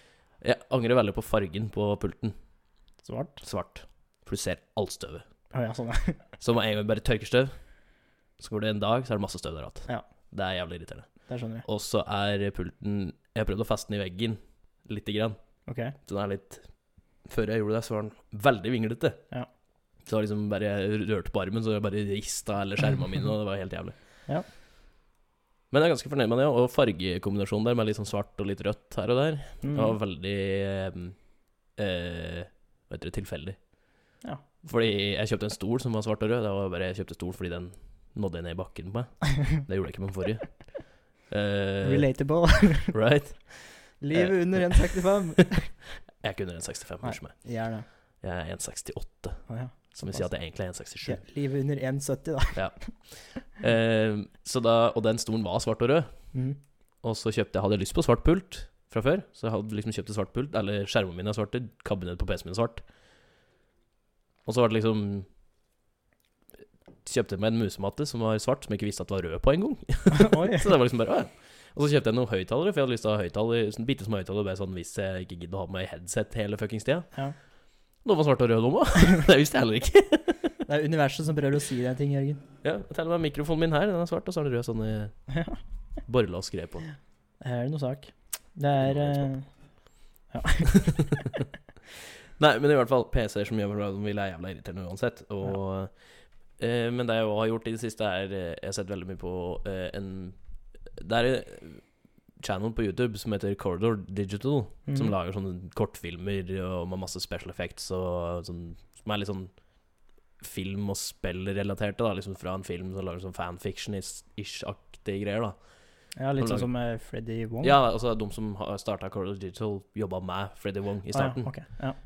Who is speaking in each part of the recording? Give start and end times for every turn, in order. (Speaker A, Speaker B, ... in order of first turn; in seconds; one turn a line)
Speaker A: 0.4-2.4
Speaker B: 3.0-3.4
Speaker A: 3.4-5.2
Speaker B: 5.5-6.3
Speaker A: 6.4-7.8
Speaker A: 8.4-15.4
Speaker B: 11.3-11.6
Speaker B: 15.7-15.9
Speaker A: 16.0-16.7
Speaker A: 17.2-19.2
Speaker A: 20.0-23.9
Speaker A: 25.7-31.2
Speaker B: 29.6-29.9
Speaker A: 31.7-33.7
Speaker A: 34.6-42.1
Speaker B: 41.8-43.0
Speaker A: 42.9-45.4
Speaker B: 44.0-45.7
Speaker A: 46.1-51.2
Speaker B: 47.0-47.9
Speaker B: 49.5-52.9
Speaker A: 52.5-56.1
Speaker A: 57.0-62.8
Speaker A: 64.4-65.3
Speaker A: 67.0-77.2
Speaker B: 70.1-70.7
Speaker A: 78.0-80.5
Speaker B: 80.7-82.4
Speaker A: 82.6-85.2
Speaker B: 85.3-85.6
Speaker A: 86.0-86.8
Speaker B: 87.4-91.2
Speaker A: 88.8-89.3
Speaker A: 92.4-96.0
Speaker A: 96.6-100.4
Speaker A: 100.9-101.8
Speaker A: 102.4-109.5
Speaker B: 104.9-105.1
Speaker A: 110.4-116.7
Speaker B: 116.1-117.7
Speaker A: 117.6-121.8
Speaker B: 121.1-122.0